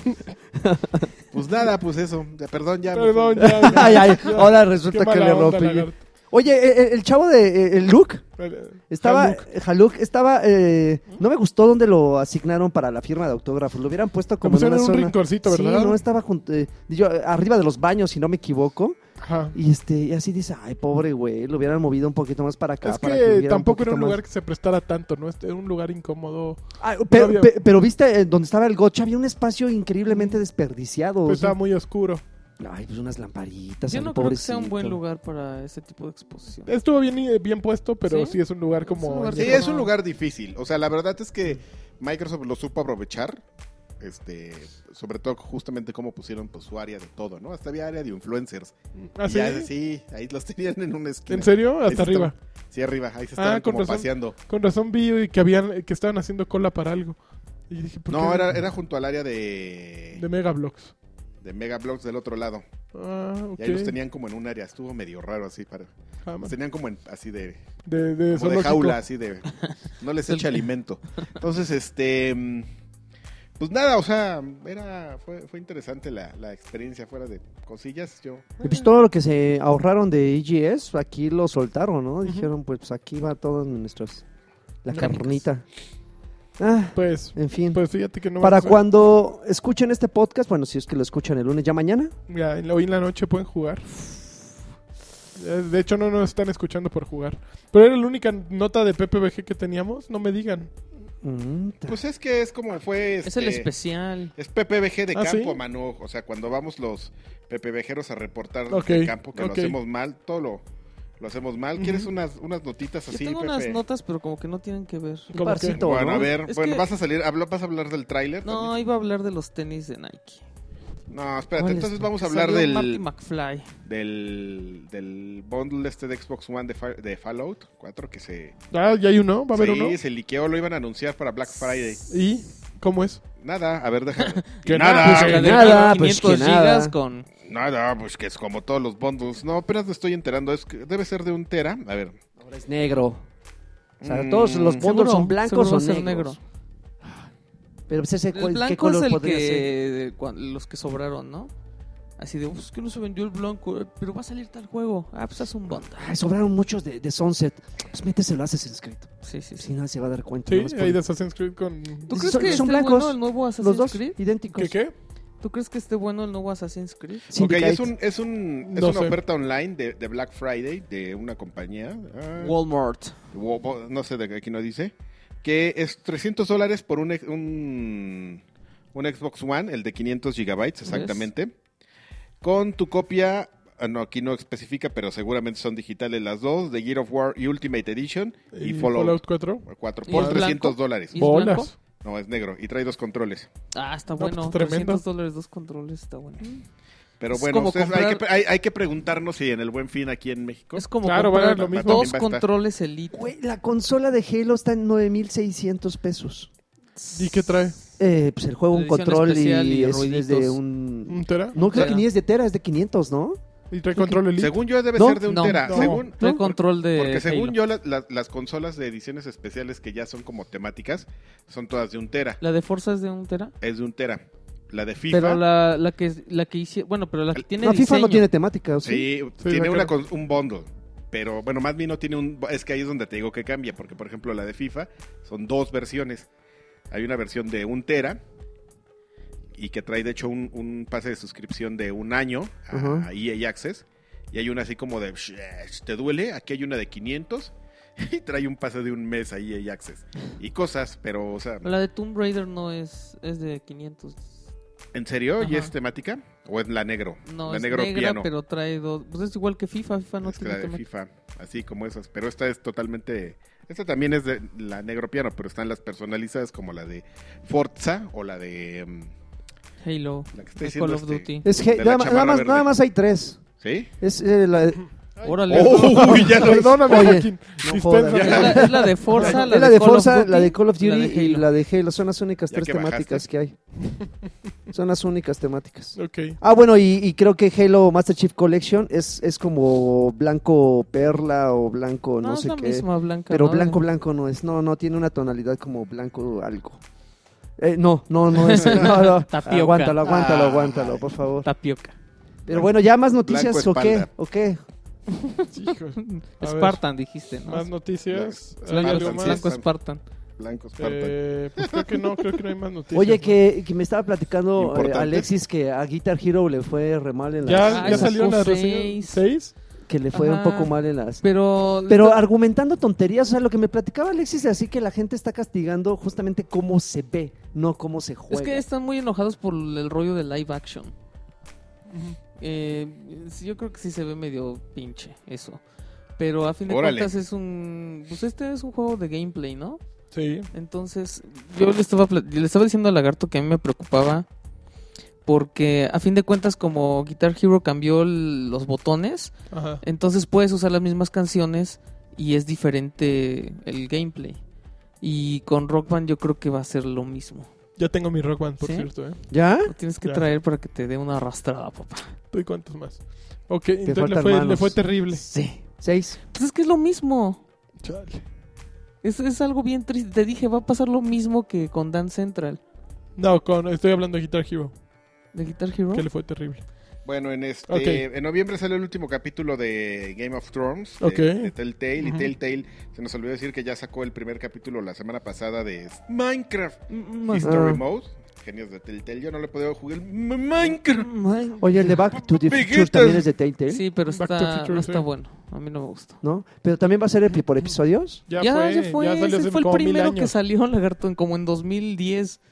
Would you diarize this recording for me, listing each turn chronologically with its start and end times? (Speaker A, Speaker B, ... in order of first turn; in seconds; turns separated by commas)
Speaker A: 0.6-1.1, Speaker B: 1.3-4.1, Speaker C: 2.9-6.0, Speaker A: 3.4-8.2, Speaker C: 8.4-9.4, Speaker A: 8.9-19.0, Speaker C: 14.4-16.0, Speaker C: 19.2-19.6, Speaker A: 19.5-24.2, Speaker C: 22.8-27.5, Speaker A: 26.8-31.6, Speaker C: 31.2-32.2, Speaker A: 32.6-35.0, Speaker D: 33.9-36.7, Speaker C: 36.6-39.7, Speaker D: 38.0-39.9, Speaker B: 39.3-43.4, Speaker B: 44.0-54.4, Speaker C: 49.1-49.7, Speaker C: 51.3-52.3, Speaker C: 53.4-57.2, Speaker C: 57.7-58.6, Speaker B: 58.1-60.2, Speaker C: 60.1-60.9, Speaker B: 61.4-62.6, Speaker C: 62.9-63.9, Speaker B: 63.6-65.9, Speaker C: 66.2-66.5, Speaker B: 66.4-67.6, Speaker C: 67.8-69.0, Speaker B: 68.3-72.7, Speaker B: 73.6-78.7, Speaker A: 78.6-84.2, Speaker A: 84.8-85.6, Speaker D: 84.9-85.4, Speaker A: 86.6-87.8, Speaker C: 86.9-88.8, Speaker A: 88.4-92.1, Speaker C: 92.3-94.2, Speaker C: 95.3-100.7, Speaker A: 101.2-102.0, Speaker B: 101.9-103.7, Speaker D: 103.2-104.3, Speaker B: 104.3-110.6, Speaker C: 105.1-105.6, Speaker C: 108.7-109.8, Speaker B: 111.2-113.8, Speaker C: 111.8-112.1, Speaker D: 113.1-115.3, Speaker A: 115.3-116.3, Speaker C: 115.3-115.8, Speaker B: 115.7-118.7, Speaker D: 116.4-116.8, Speaker D: 118.4-120.4, Speaker B: 121.1-123.0, Speaker D: 121.6-123.7, Speaker B: 123.8-128.5, Speaker C: 128.7-130.0, Speaker B: 129.5-132.0, Speaker C: 132.1-133.2, Speaker B: 133.4-135.7, Speaker C: 134.6-135.9, Speaker D: 134.8-137.2, Speaker A: 135.0-136.9, Speaker B: 137.4-142.2, Speaker A: 142.4-143.2, Speaker B: 144.0-144.9, Speaker A: 144.0-146.3, Speaker D: 144.8-146.4, Speaker A: 147.9-149.7, Speaker D: 148.3-151.5, Speaker D: 152.2-156.1, Speaker A: 155.8-161.0, Speaker D: 159.2-159.7, Speaker C: 160.4-162.6, Speaker D: 162.1-164.2, Speaker A: 162.1-164.8, Speaker C: 164.5-164.9, Speaker D: 165.4-167.3, Speaker A: 167.3-167.9, Speaker B: 167.3-172.6, Speaker C: 168.6-169.2, Speaker D: 172.4-173.2, Speaker B: 173.3-178.4, Speaker B: 178.9-181.5, Speaker D: 180.8-181.2, Speaker B: 182.4-191.3, Speaker C: 188.5-190.5, Speaker D: 190.1-191.7, Speaker C: 191.2-191.7, Speaker B: 192.0-193.5, Speaker D: 193.7-196.6, Speaker C: 194.2-195.0, Speaker B: 197.2-200.9, Speaker D: 197.3-198.2, Speaker D: 200.8-203.2, Speaker C: 201.0-202.1, Speaker B: 201.6-202.4, Speaker A: 203.1-206.5, Speaker D: 207.0-207.6, Speaker C: 207.1-207.8, Speaker A: 208.0-213.4, Speaker D: 208.7-210.6, Speaker C: 211.1-211.6, Speaker D: 211.6-212.1, Speaker C: 213.7-214.6, Speaker B: 214.4-222.4, Speaker A: 214.9-216.4, Speaker D: 215.2-217.6, Speaker C: 215.7-216.0, Speaker D: 222.4-223.5, Speaker B: 223.6-225.4, Speaker D: 225.1-228.3, Speaker A: 227.5-229.1, Speaker B: 228.8-236.3, Speaker C: 229.4-229.9, Speaker B: 236.9-238.2, Speaker B: 239.5-251.7, Speaker A: 242.7-243.1, Speaker D: 251.6-254.4, Speaker B: 254.9-258.3, Speaker D: 255.4-255.7, Speaker D: 257.2-260.8, Speaker B: 260.2-269.1, Speaker D: 269.8-271.4, Speaker B: 270.3-272.7, Speaker A: 271.4-273.4, Speaker B: 273.6-273.9, Speaker A: 274.0-274.9, Speaker C: 275.2-279.4, Speaker D: 275.2-276.4, Speaker B: 275.5-277.2, Speaker A: 276.1-283.6, Speaker B: 278.1-278.6, Speaker D: 278.1-281.5, Speaker B: 282.5-283.3, Speaker A: 284.7-296.8, Speaker C: 285.9-286.4, Speaker D: 292.2-293.8, Speaker A: 297.6-301.5, Speaker D: 298.3-300.0, Speaker B: 300.0-301.1, Speaker D: 301.4-301.9, Speaker B: 302.5-304.1, Speaker A: 302.5-304.6, Speaker D: 305.2-307.7, Speaker C: 305.5-306.8, Speaker C: 307.4-309.4, Speaker B: 308.1-309.6, Speaker D: 308.7-310.0, Speaker B: 310.4-312.4, Speaker C: 310.8-313.4, Speaker A: 312.9-318.2, Speaker B: 314.5-315.3, Speaker C: 317.4-319.5, Speaker D: 317.7-319.2, Speaker A: 319.9-321.2, Speaker D: 320.1-322.3, Speaker A: 321.9-328.6, Speaker D: 328.3-330.9, Speaker C: 331.9-332.2, Speaker D: 332.4-335.6, Speaker D: 336.2-339.8, Speaker B: 336.6-337.1, Speaker C: 340.1-340.5, Speaker D: 340.5-344.2, Speaker D: 345.2-354.4, Speaker C: 349.5-349.8, Speaker D: 355.0-357.5, Speaker C: 357.8-359.2, Speaker D: 358.6-358.9, Speaker A: 359.3-359.7, Speaker D: 359.6-362.1, Speaker C: 362.3-365.2, Speaker A: 363.8-364.8, Speaker D: 365.2-365.6, Speaker A: 365.8-366.2, Speaker D: 366.3-367.4, Speaker C: 367.8-368.2, Speaker D: 369.0-372.6, Speaker C: 373.1-374.7, Speaker D: 375.3-376.1, Speaker C: 375.9-376.6, Speaker B: 377.0-391.1, Speaker C: 377.7-378.0, Speaker C: 381.0-382.3, Speaker D: 386.9-387.7, Speaker A: 387.4-387.8, Speaker D: 390.9-391.6, Speaker A: 391.6-393.8, Speaker B: 392.1-393.3, Speaker D: 393.7-396.2, Speaker C: 394.1-395.0, Speaker A: 396.2-398.2, Speaker C: 398.3-400.3, Speaker D: 398.4-402.4